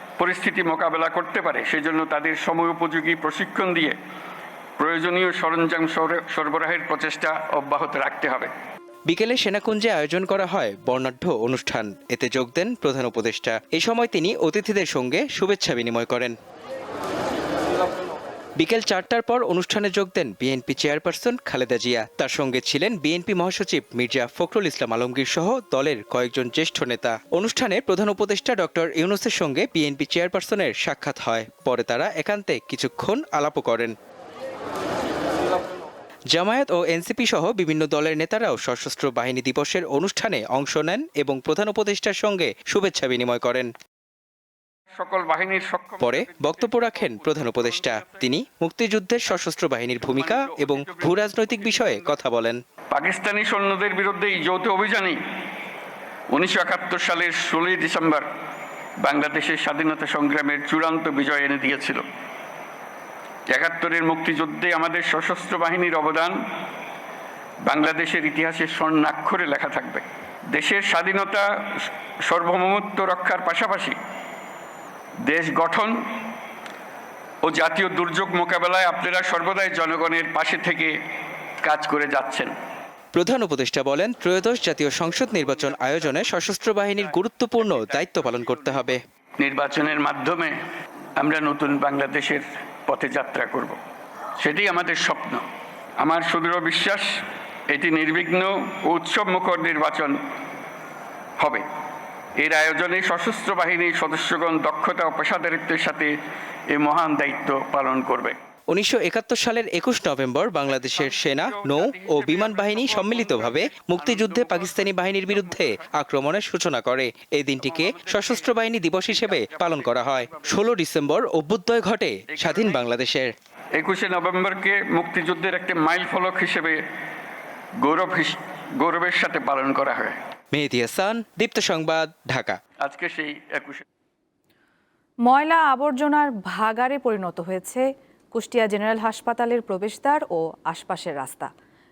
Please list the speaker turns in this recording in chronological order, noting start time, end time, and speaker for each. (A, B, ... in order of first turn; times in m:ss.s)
0:00.2-0:04.0 A
0:04.8-0:08.5 A
0:09.1-0:16.4 B
0:18.6-0:34.0 B
0:36.3-0:43.7 B
0:45.0-0:48.1 A
0:46.0-0:52.6 B
0:50.1-0:52.2 A
0:52.9-0:55.2 A
0:56.3-0:58.3 A
0:59.0-1:02.0 A
1:03.5-1:06.4 A
1:07.6-1:14.0 A
1:15.2-1:15.9 A
1:17.4-1:21.0 A
1:21.6-1:22.5 A
1:23.1-1:29.0 B
1:27.6-1:30.5 A
1:31.2-1:33.8 A
1:34.4-1:35.4 A
1:36.0-1:37.0 A
1:37.7-1:40.2 A
1:41.4-1:41.6 A
1:42.4-1:46.1 A
1:46.7-1:48.4 A
1:48.7-2:03.3 B
1:51.0-1:55.9 A
1:57.6-1:58.5 A
1:59.1-2:00.5 A
2:02.3-2:02.8 A
2:03.8-2:06.8 A
2:07.8-2:10.2 A
2:10.5-2:12.6 B
2:12.8-2:13.8 A
2:15.3-2:21.5 C